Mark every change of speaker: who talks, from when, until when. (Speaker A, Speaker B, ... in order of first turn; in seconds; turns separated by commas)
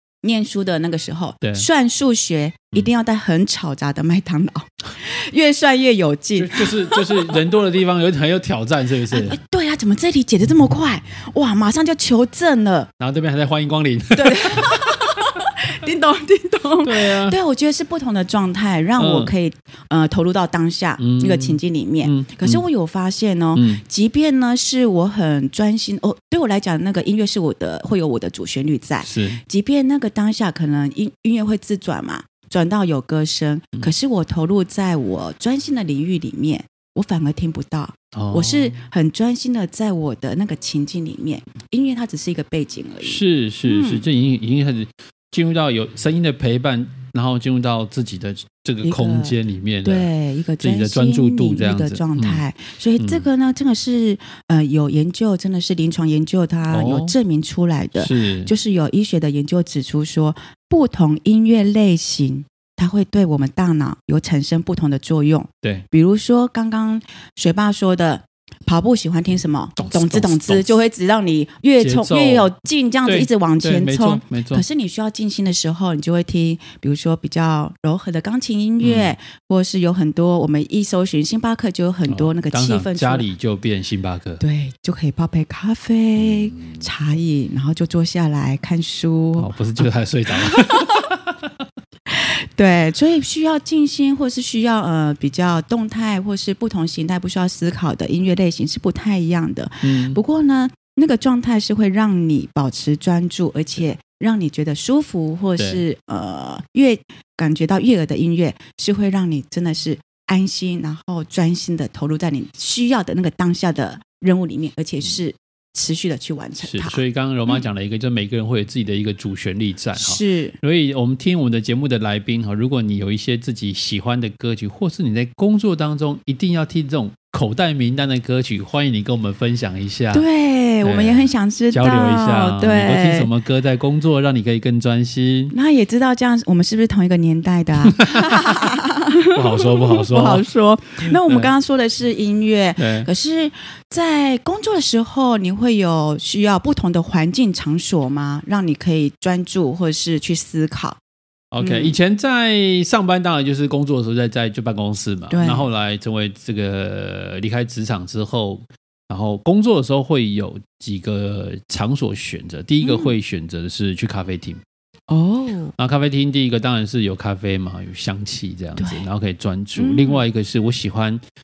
Speaker A: 0.2-7.4, Speaker B: 1.4-1.7, Speaker B: 6.4-9.4, Speaker A: 9.1-12.9, Speaker B: 13.0-15.0, Speaker A: 14.1-44.0, Speaker B: 16.8-17.4, Speaker B: 19.0-19.3, Speaker B: 21.0-22.6, Speaker B: 23.5-23.8, Speaker B: 29.0-29.4, Speaker B: 38.1-38.8, Speaker B: 43.0-50.1, Speaker A: 48.8-83.2, Speaker B: 50.6-52.4, Speaker B: 53.0-53.2, Speaker B: 56.7-57.1, Speaker B: 58.0-58.5, Speaker B: 69.8-70.7, Speaker B: 71.8-72.5, Speaker B: 73.0-74.6, Speaker B: 78.8-79.1, Speaker B: 82.1-84.4, Speaker A: 84.4-89.9, Speaker B: 86.2-86.9, Speaker B: 89.4-91.5, Speaker A: 90.4-90.8, Speaker A: 92.1-117.7, Speaker B: 99.8-100.2, Speaker B: 105.6-105.8, Speaker B: 116.6-130.2, Speaker A: 120.0-120.5, Speaker A: 130.1-133.3, Speaker B: 130.8-135.5, Speaker A: 135.5-151.0, Speaker B: 137.9-138.5, Speaker B: 139.3-140.4, Speaker B: 141.0-141.5, Speaker B: 142.8-143.1, Speaker B: 151.5-164.6, Speaker A: 151.6-151.9, Speaker A: 155.3-155.7, Speaker A: 162.8-163.1, Speaker A: 165.1-165.7, Speaker B: 165.8-171.2, Speaker A: 168.8-169.1, Speaker A: 169.8-170.2